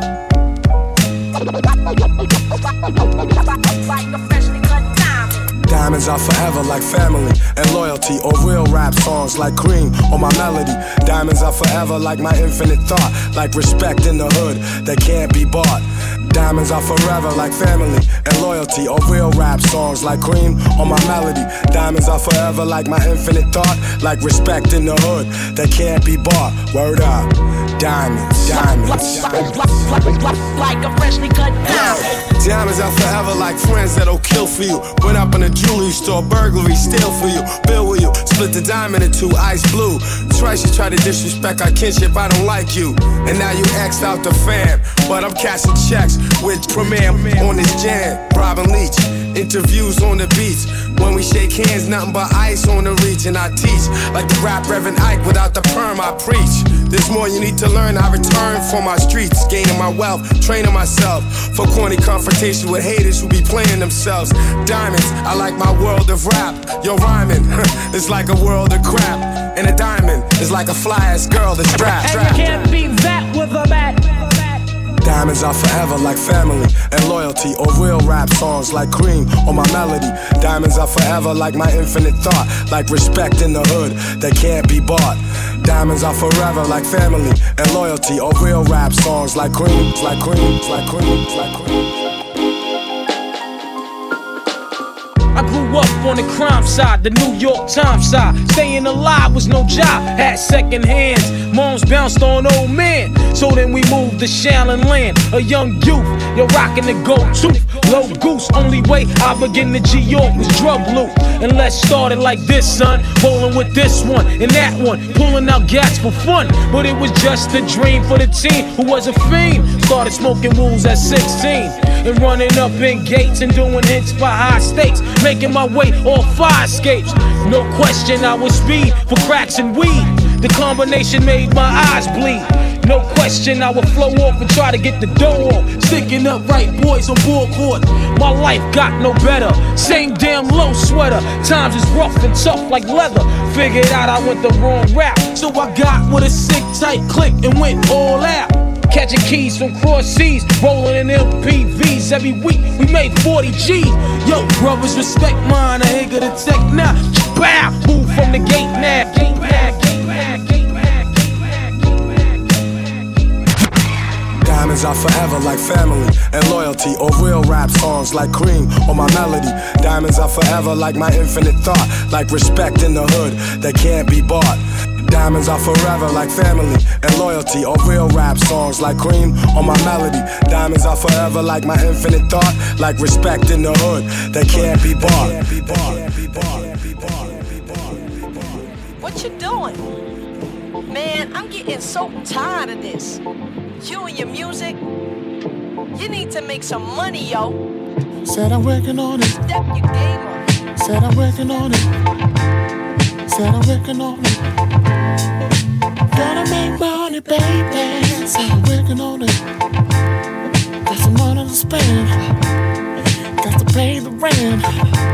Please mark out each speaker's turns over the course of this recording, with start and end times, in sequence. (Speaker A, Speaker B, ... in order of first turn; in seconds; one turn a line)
Speaker A: 2.9-5.5
Speaker B: 5.6-29.6
Speaker A: 28.4-32.1
Speaker B: 31.6-72.5
Speaker C: 72.1-74.0
Speaker B: 75.0-92.0
Speaker C: 95.3-162.8
Speaker B: 164.4-187.6
Speaker D: 189.0-189.9
Speaker D: 190.9-193.2
Speaker D: 193.8-194.8
Speaker D: 195.9-197.6
Speaker E: 198.2-199.4
Speaker D: 199.4-200.4
Speaker E: 200.8-201.9
Speaker E: 203.3-204.4
Speaker E: 206.1-209.4
Speaker E: 210.8-212.1
Speaker E: 213.4-214.6